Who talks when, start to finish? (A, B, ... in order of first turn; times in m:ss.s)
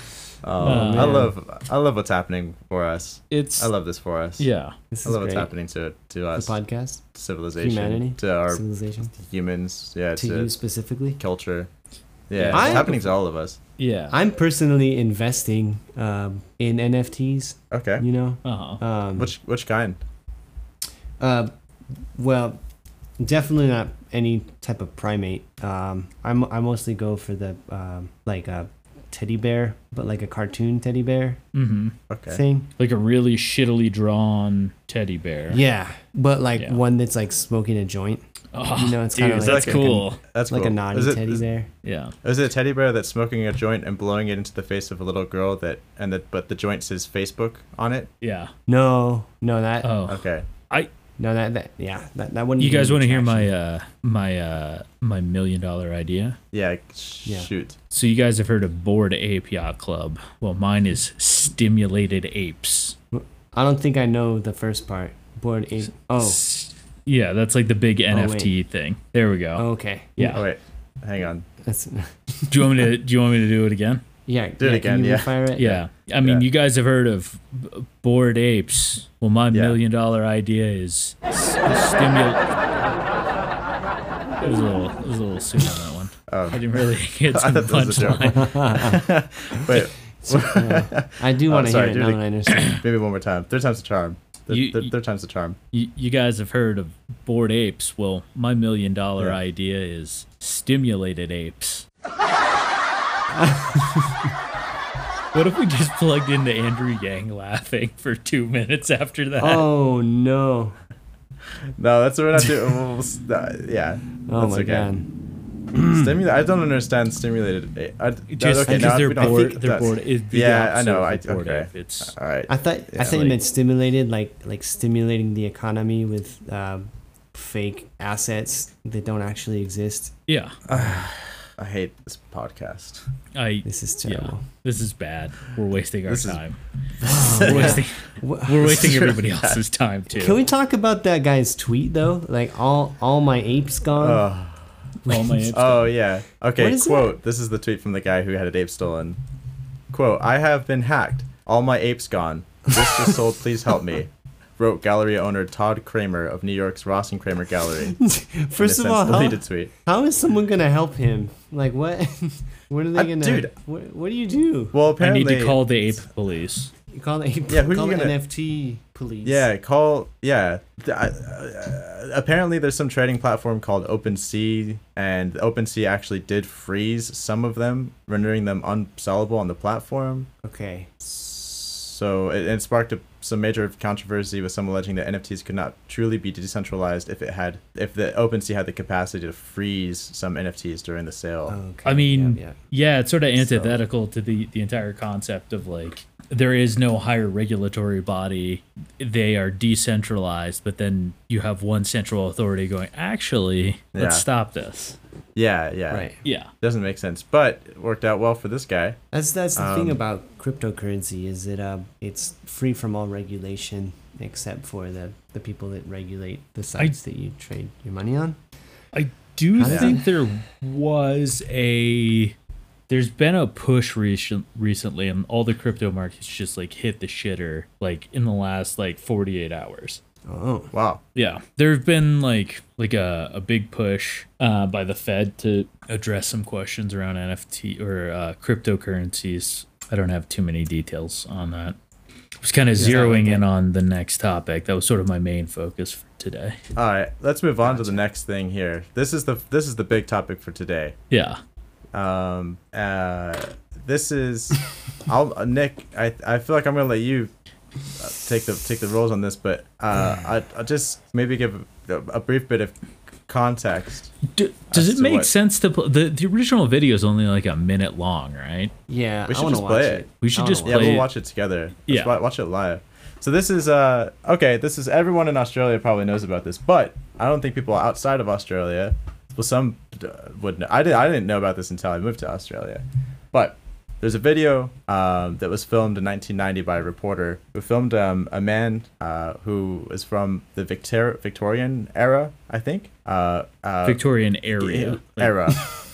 0:00.4-0:04.5 A
0:00.6-0:01.3 B
0:00.7-0:01.3 C
0:03.3-0:03.7 B
0:04.4-0:04.7 B
0:04.9-0:05.5 C
0:05.0-0:06.6 A
0:06.3-0:09.1 C
0:07.1-0:08.6 A
0:09.2-0:10.5 A
0:10.1-0:11.2 C
0:11.2-0:11.7 A
0:12.3-0:13.6 A
0:12.3-0:12.9 B
0:12.5-0:13.2 C
0:13.8-0:14.2 B
0:14.1-0:19.3 C
0:17.7-0:18.0 A
0:18.4-0:18.8 B
0:19.2-0:20.0 A
0:21.2-0:21.5 C
0:22.1-0:22.6 C
0:23.2-0:31.4 C
0:31.5-0:31.9 B
0:32.1-0:32.4 A
0:32.3-0:32.7 C
0:32.8-0:35.6 B
0:35.5-0:41.7 C
0:38.5-0:40.2 B
0:39.4-0:41.4 A
0:41.8-0:42.1 B
0:42.2-0:48.1 A
0:48.2-0:48.5 B
0:48.7-0:50.0 C
0:49.8-0:50.9 B
0:50.0-0:50.5 A
0:51.2-0:53.5 C
0:52.6-0:56.4 B
0:56.5-0:57.8 A
0:57.2-0:57.5 C
0:57.9-1:03.0 B
1:03.1-1:06.4 C
1:06.0-1:09.6 B
1:08.1-1:08.6 C
1:09.6-1:10.3 C
1:10.2-1:10.4 B
1:10.3-1:11.5 A
1:11.6-1:12.7 C
1:12.5-1:14.0 B
1:14.3-1:15.8 C
1:14.6-1:15.4 A
1:15.5-1:22.5 B
1:19.5-1:19.8 A
1:24.4-1:28.8 B
1:26.3-1:26.6 A
1:27.3-1:35.6 A
1:28.3-1:28.9 C
1:29.6-1:32.8 C
1:34.5-1:34.9 B
1:35.7-1:41.8 B
1:43.4-1:44.2 C
1:45.3-1:49.7 B
1:49.4-1:50.7 C
1:51.8-1:54.9 A
1:54.2-1:55.1 C
1:55.7-1:56.2 C
1:55.9-2:03.4 A
1:58.3-2:02.1 B
1:58.7-1:59.9 C
2:02.5-2:10.1 C
2:10.3-2:10.6 B
2:10.7-2:13.0 A
2:13.3-2:16.6 B
2:13.6-2:14.4 C
2:16.0-2:16.4 A
2:17.0-2:18.8 C
2:17.1-2:20.4 B
2:17.2-2:17.8 A
2:18.7-2:19.6 A
2:20.2-2:24.3 C
2:24.0-2:24.7 A
2:25.1-2:25.9 B
2:25.1-2:25.4 C
2:25.5-2:29.2 A
2:26.6-2:27.2 C
2:29.9-2:38.0 A
2:32.8-2:33.2 C
2:37.9-2:44.7 C
2:38.6-2:39.7 A
2:42.9-2:43.6 A
2:44.7-2:45.6 A
2:45.0-2:46.7 B
2:46.9-2:49.5 C
2:47.5-2:48.2 A
2:49.2-3:00.3 A
3:00.4-3:00.9 C
3:01.0-3:11.6 A
3:11.5-3:12.6 C
3:11.8-3:25.0 B
3:13.4-3:13.8 A
3:23.9-3:24.3 A
3:25.3-3:29.0 A
3:25.9-3:26.2 C
3:26.2-3:26.5 B
3:29.1-3:38.4 C
3:29.5-3:30.0 A
3:38.9-3:42.3 B
3:39.6-3:40.0 C
3:42.9-3:50.0 B
3:50.3-3:50.7 C
3:50.7-3:51.0 A
3:51.1-4:01.8 B
4:02.4-4:06.6 B
4:02.8-4:03.4 C
4:06.8-4:11.0 A
4:07.6-4:08.0 C
4:11.1-4:11.4 B
4:11.9-4:17.3 A
4:18.0-4:22.7 A
4:23.3-4:24.1 A
4:24.3-4:28.7 B
4:24.7-4:25.3 A
4:28.9-4:31.1 C
4:29.3-4:54.0 A
4:30.2-4:31.1 B
4:31.9-4:32.2 B
4:53.8-4:55.3 B
4:54.6-4:55.6 A